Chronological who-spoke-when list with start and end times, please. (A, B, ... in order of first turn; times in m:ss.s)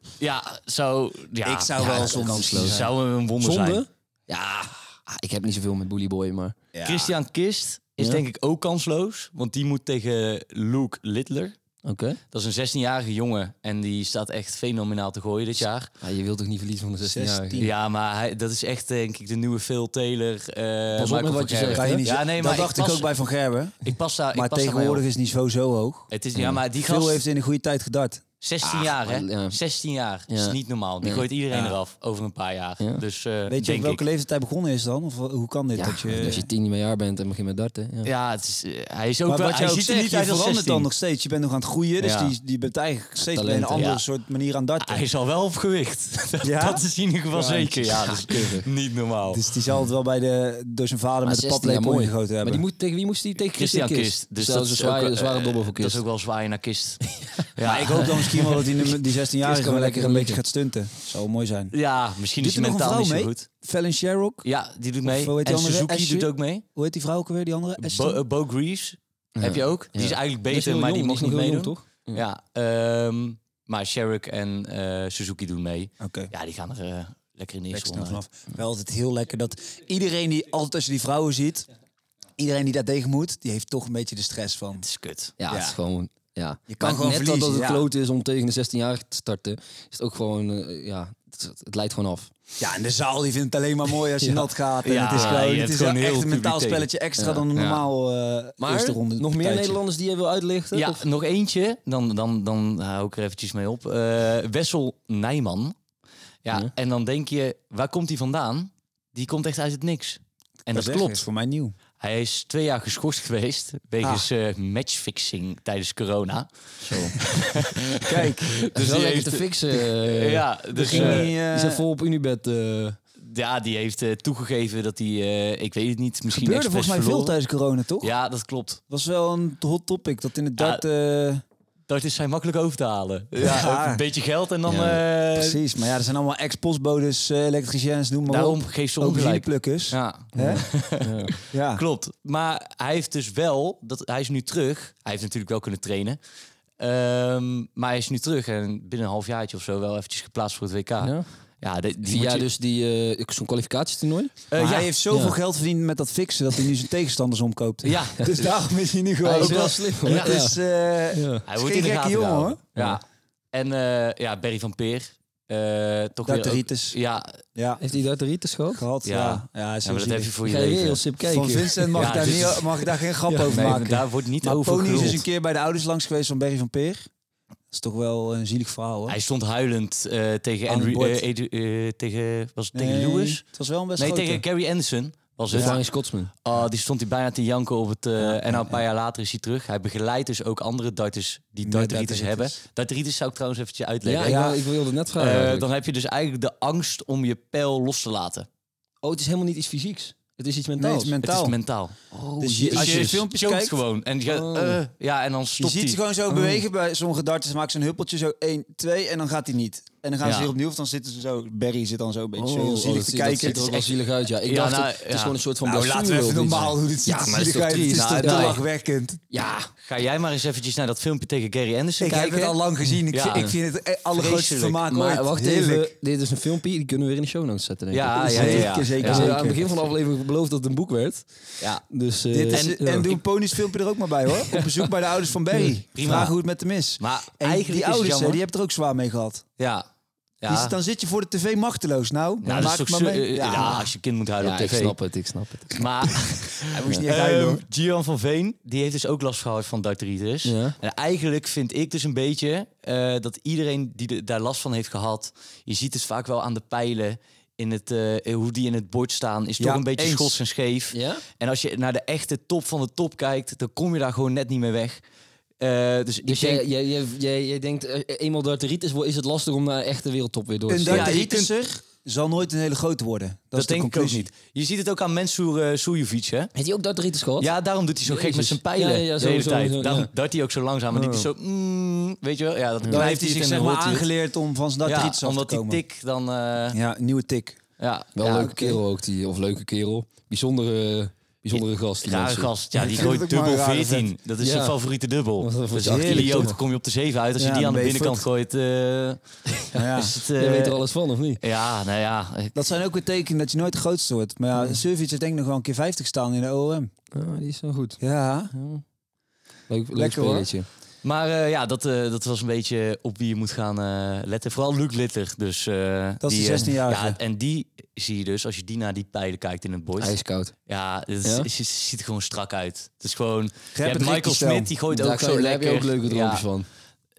0:00.2-0:03.8 A
0:01.4-0:02.9 B
0:01.8-0:02.9 C
0:03.4-0:06.6 C
0:06.7-0:07.2 B
0:06.8-0:11.6 A
0:11.8-0:12.2 C
0:12.3-0:15.9 A
0:16.0-0:17.6 C
0:17.0-0:17.7 B
0:17.6-0:23.1 A
0:21.0-0:22.0 C
0:21.7-0:26.1 B
0:23.8-0:25.0 A
0:26.1-0:27.2 A
0:26.4-0:26.6 C
0:26.8-0:28.2 B
0:28.4-0:34.0 A
0:28.6-0:29.6 C
0:30.3-0:31.3 C
0:33.5-0:36.5 B
0:35.7-0:38.1 C
0:38.0-0:40.9 A
0:39.3-0:45.0 B
0:42.0-0:42.4 A
0:43.2-0:43.9 C
0:43.7-0:44.0 A
0:44.8-0:49.4 A
0:46.4-0:48.2 B
0:48.0-0:48.7 C
0:49.3-0:52.6 B
0:51.2-0:56.0 C
0:53.5-0:58.6 A
0:57.2-0:57.5 C
0:57.6-1:01.8 B
0:58.5-1:00.4 C
1:01.7-1:03.5 A
1:02.4-1:04.5 B
1:04.4-1:06.6 A
1:05.0-1:08.2 B
1:07.8-1:18.2 A
1:09.4-1:12.2 C
1:16.0-1:16.3 B
1:17.7-1:21.7 B
1:22.4-1:24.8 B
1:24.8-1:25.3 A
1:25.4-1:32.3 C
1:25.5-1:25.8 B
1:26.7-1:27.9 B
1:32.6-1:39.8 B
1:34.2-1:34.5 C
1:34.8-1:36.9 A
1:35.1-1:35.4 C
1:37.2-1:37.5 C
1:37.6-1:37.8 A
1:38.6-1:41.0 C
1:40.7-1:45.8 A
1:46.4-1:51.2 A
1:50.7-1:51.8 B
1:52.0-2:01.3 A
1:56.8-1:57.2 C
1:58.0-1:58.6 B
1:58.8-2:03.0 C
2:00.8-2:01.8 B
2:03.2-2:07.4 A
2:06.3-2:08.1 B
2:08.0-2:08.8 A
2:08.9-2:11.4 B
2:10.6-2:10.8 A
2:11.9-2:15.6 A
2:13.4-2:14.0 B
2:14.7-2:15.0 C
2:14.8-2:20.7 B
2:18.3-2:26.2 A
2:20.4-2:21.3 C
2:21.5-2:21.8 B
2:26.8-2:32.5 A
2:31.0-2:31.3 C
2:32.0-2:34.4 C
2:34.5-2:34.9 A
2:34.6-2:42.6 B
2:35.1-2:35.4 C
2:37.8-2:38.6 A
2:39.2-2:40.6 C
2:39.4-2:40.4 A
2:41.1-2:41.4 C
2:41.4-2:47.4 A
2:42.8-2:43.0 C
2:46.2-2:47.0 B
2:47.6-2:47.8 B
2:47.8-2:48.8 C
2:48.7-2:50.3 B
2:49.0-2:51.1 A
2:50.4-2:52.6 C
2:51.2-2:57.1 B
2:52.0-2:52.8 A
2:53.3-2:53.7 C
2:53.5-2:55.2 A
2:57.7-2:59.2 B
2:59.1-3:03.4 A
3:00.7-3:01.2 B
3:02.7-3:04.4 B
3:04.0-3:05.8 A
3:05.5-3:06.3 C
3:06.4-3:14.5 A
3:08.2-3:08.8 B
3:11.6-3:12.6 B
3:14.0-3:15.7 C
3:14.2-3:14.6 B
3:15.2-3:18.5 A
3:19.0-3:21.2 C
3:20.8-3:21.6 B
3:21.2-3:22.0 A
3:22.1-3:23.2 C
3:22.4-3:23.8 B
3:22.7-3:26.0 A
3:24.3-3:24.8 C
3:25.6-3:33.9 B
3:26.3-3:26.6 C
3:30.2-3:30.5 A
3:32.4-3:38.6 C
3:34.4-3:35.4 A
3:35.6-3:39.2 B
3:37.9-3:38.6 A
3:39.3-3:39.7 C
3:39.8-3:42.6 A
3:42.0-3:45.9 B
3:43.1-3:43.5 A
3:44.1-3:44.9 A
3:44.9-3:53.1 C
3:47.9-3:49.4 A
3:48.3-3:49.7 B
3:52.3-3:59.5 B
3:52.5-3:53.2 A
3:54.5-3:54.8 C
3:55.5-3:55.8 C
3:56.0-3:56.4 A
3:57.0-3:58.4 A
3:59.6-3:59.9 A
4:00.4-4:00.8 A
4:00.5-4:03.9 B
4:02.4-4:05.0 A
4:03.6-4:03.8 C
4:04.4-4:05.8 C
4:05.7-4:25.0 A
4:06.6-4:07.6 B
4:10.4-4:10.8 C
4:19.6-4:20.4 B
4:20.9-4:21.2 C
4:25.6-4:26.6 A
4:26.2-4:31.1 C
4:30.7-4:34.3 B
4:30.9-4:31.5 A
4:33.6-4:36.5 A
4:36.6-4:37.5 C
4:37.4-4:44.1 A
4:38.0-4:40.1 C
4:40.9-4:41.3 C
4:42.8-4:43.1 C
4:42.9-4:45.8 B
4:44.8-4:46.8 A
4:46.7-4:47.6 B
4:47.8-4:48.5 A
4:48.2-4:52.5 C
4:48.4-4:48.8 B
4:51.5-5:00.8 A
4:52.8-4:54.1 B
4:54.4-4:54.8 C
4:55.4-4:56.6 C
4:55.8-4:56.5 B
4:57.4-4:58.2 B
4:59.7-5:00.2 B
5:00.4-5:01.4 C
5:01.4-5:02.6 A
5:02.6-5:06.9 B
5:07.1-5:08.0 C
5:08.0-5:08.5 B
5:08.5-5:08.8 C
5:09.7-5:10.7 C
5:09.9-5:10.5 B
5:11.0-5:20.2 A
5:16.2-5:17.2 B
5:20.0-5:20.5 C
5:20.7-5:26.4 A
5:21.2-5:21.5 C
5:23.8-5:24.7 B
5:24.9-5:26.7 C